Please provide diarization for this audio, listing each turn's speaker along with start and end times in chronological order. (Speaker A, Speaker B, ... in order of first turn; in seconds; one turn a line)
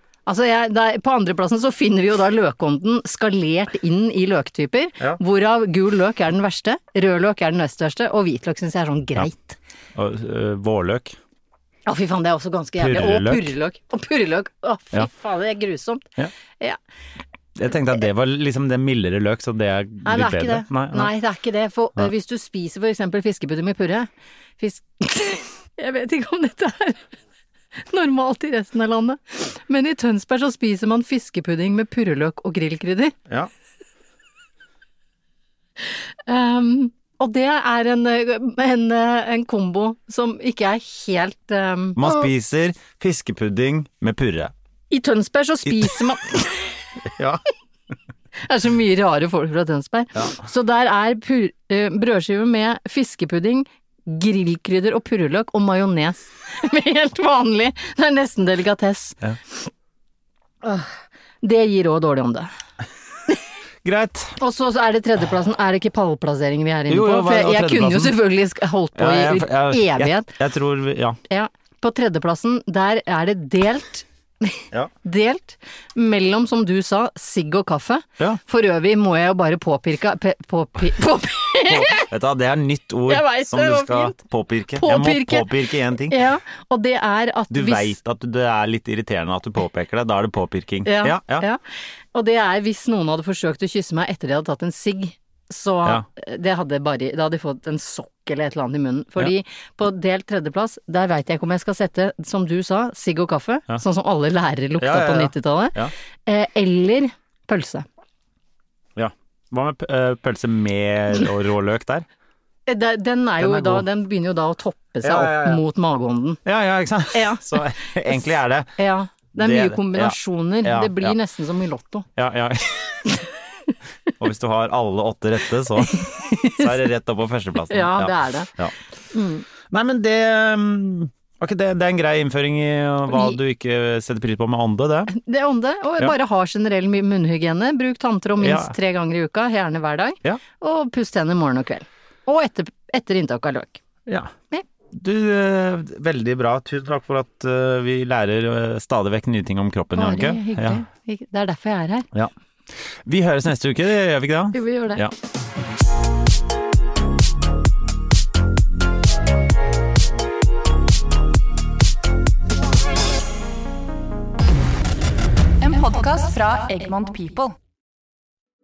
Speaker A: 0.2-9.6
Speaker B: 9.9-11.2
Speaker A: 11.8-16.8
Speaker B: 12.8-13.5
Speaker B: 17.6-21.1
Speaker A: 20.0-24.1
Speaker A: 24.6-27.0
Speaker A: 27.9-33.1
Speaker A: 36.3-42.3
Speaker B: 42.0-44.5
Speaker A: 44.9-46.8
Speaker B: 47.0-47.4
Speaker A: 48.4-59.7
Speaker A: 60.6-62.5
Speaker B: 63.8-64.4
Speaker A: 64.4-70.3
Speaker B: 66.9-68.2
Speaker B: 68.9-71.2
Speaker A: 71.3-82.1
Speaker B: 81.7-86.2
Speaker A: 83.1-84.2
Speaker A: 84.7-88.0
Speaker B: 87.5-91.5
Speaker A: 90.8-91.6
Speaker A: 92.1-107.8
Speaker B: 104.8-105.9
Speaker B: 108.9-112.0
Speaker A: 112.7-116.4
Speaker B: 113.4-113.8
Speaker B: 115.0-115.6
Speaker B: 116.4-118.8
Speaker A: 117.1-118.2
Speaker A: 118.8-122.0
Speaker B: 119.4-121.2
Speaker B: 122.2-123.1
Speaker B: 124.2-128.7
Speaker A: 125.8-126.8
Speaker A: 127.7-128.5
Speaker A: 129.1-129.4
Speaker B: 129.7-135.1
Speaker A: 133.1-133.4
Speaker A: 135.1-143.8
Speaker B: 138.4-138.7
Speaker B: 144.1-144.3
Speaker B: 144.9-150.8
Speaker A: 149.9-152.1
Speaker B: 153.0-155.1
Speaker A: 154.5-155.0
Speaker C: 165.6-167.6